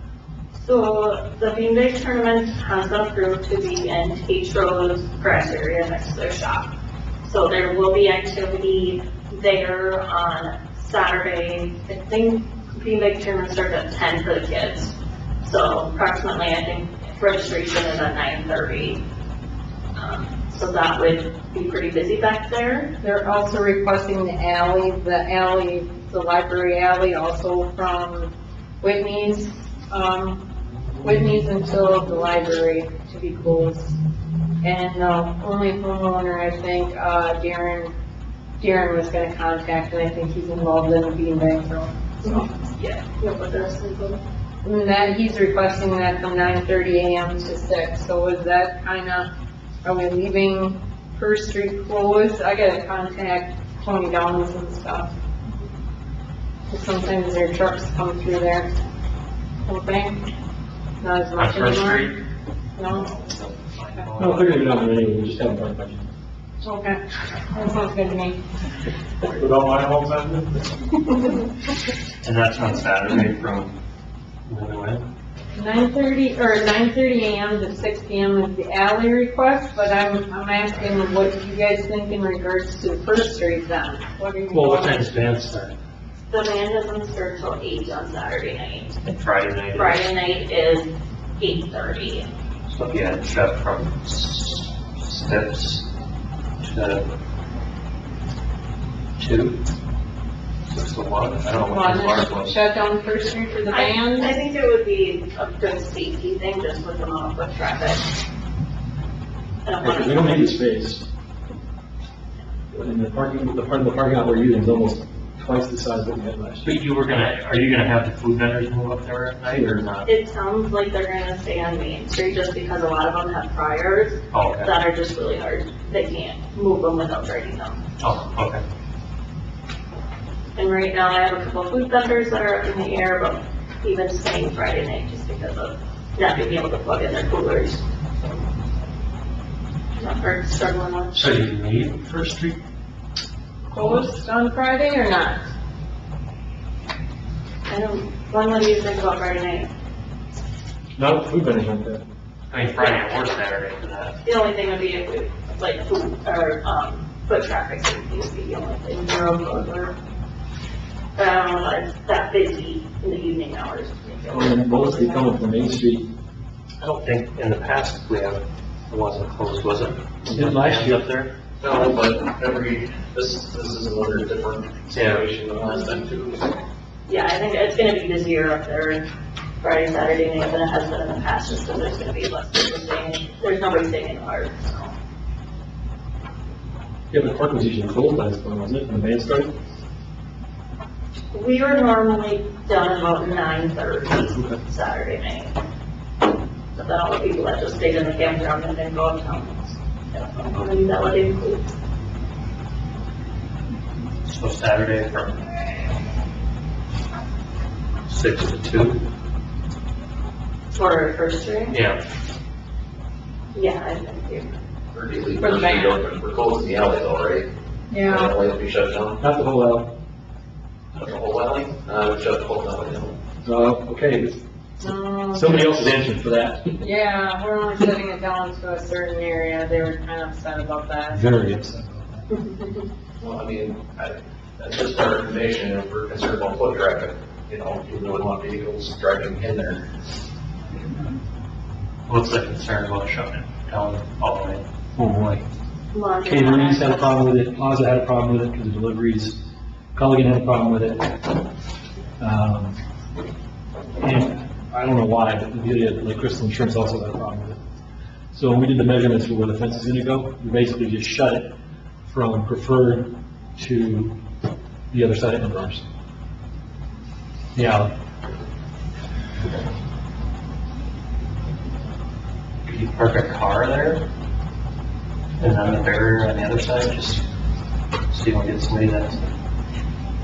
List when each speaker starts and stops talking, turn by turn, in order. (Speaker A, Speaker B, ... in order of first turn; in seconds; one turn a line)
Speaker A: 0.6-6.7
Speaker A: 7.2-19.0
Speaker A: 19.9-22.9
Speaker B: 23.0-30.4
Speaker B: 31.0-34.0
Speaker B: 34.6-37.9
Speaker B: 38.6-42.5
Speaker A: 42.2-44.2
Speaker B: 44.6-49.3
Speaker B: 49.8-55.1
Speaker B: 56.7-58.7
Speaker B: 59.7-60.3
Speaker B: 61.0-62.1
Speaker C: 61.4-62.2
Speaker B: 62.8-63.1
Speaker C: 63.0-64.8
Speaker D: 64.2-66.1
Speaker B: 66.6-68.4
Speaker C: 69.2-70.6
Speaker C: 72.2-73.7
Speaker C: 74.5-75.0
Speaker B: 75.5-85.1
Speaker C: 84.5-85.8
Speaker A: 86.3-89.0
Speaker C: 89.0-90.0
Speaker A: 89.7-92.3
Speaker C: 92.7-95.9
Speaker C: 96.6-97.0
Speaker C: 99.2-99.6
Speaker C: 100.7-102.6
Speaker B: 101.6-104.4
Speaker A: 103.7-108.1
Speaker A: 109.6-110.5
Speaker D: 109.8-111.1
Speaker D: 112.7-116.8
Speaker C: 116.6-120.1
Speaker D: 119.5-119.8
Speaker A: 120.0-127.8
Speaker C: 124.3-124.8
Speaker C: 128.0-128.6
Speaker A: 130.6-137.8
Speaker A: 140.0-141.5
Speaker C: 141.1-142.6
Speaker B: 143.7-145.4
Speaker A: 147.7-149.7
Speaker D: 151.0-152.1
Speaker C: 152.5-154.2
Speaker A: 152.7-153.4
Speaker A: 154.2-159.9
Speaker A: 161.2-165.4
Speaker D: 164.3-166.1
Speaker C: 166.8-171.3
Speaker D: 170.2-171.0
Speaker E: 171.6-176.6
Speaker C: 174.9-175.2
Speaker A: 177.1-179.0
Speaker A: 179.6-184.9
Speaker D: 187.1-189.5
Speaker A: 191.3-195.6
Speaker A: 196.7-201.7
Speaker C: 204.2-205.5
Speaker C: 208.1-209.0
Speaker A: 210.7-211.8
Speaker C: 211.7-212.0
Speaker A: 213.5-214.6
Speaker E: 214.9-217.5
Speaker B: 215.4-216.0
Speaker B: 217.9-218.4
Speaker E: 218.0-219.2
Speaker D: 219.2-219.9
Speaker E: 220.9-223.2
Speaker D: 223.4-226.8
Speaker B: 224.8-225.8
Speaker B: 226.8-231.2
Speaker D: 231.1-232.3
Speaker E: 233.2-239.8
Speaker C: 242.1-244.6
Speaker D: 244.9-245.4
Speaker A: 245.9-247.2
Speaker D: 246.2-249.4
Speaker D: 249.9-251.2
Speaker D: 252.2-252.8
Speaker D: 254.0-257.6
Speaker D: 258.3-261.6
Speaker D: 262.1-264.2
Speaker D: 264.9-265.9
Speaker D: 267.6-267.9
Speaker C: 272.6-274.0
Speaker C: 275.4-277.2
Speaker C: 278.1-279.3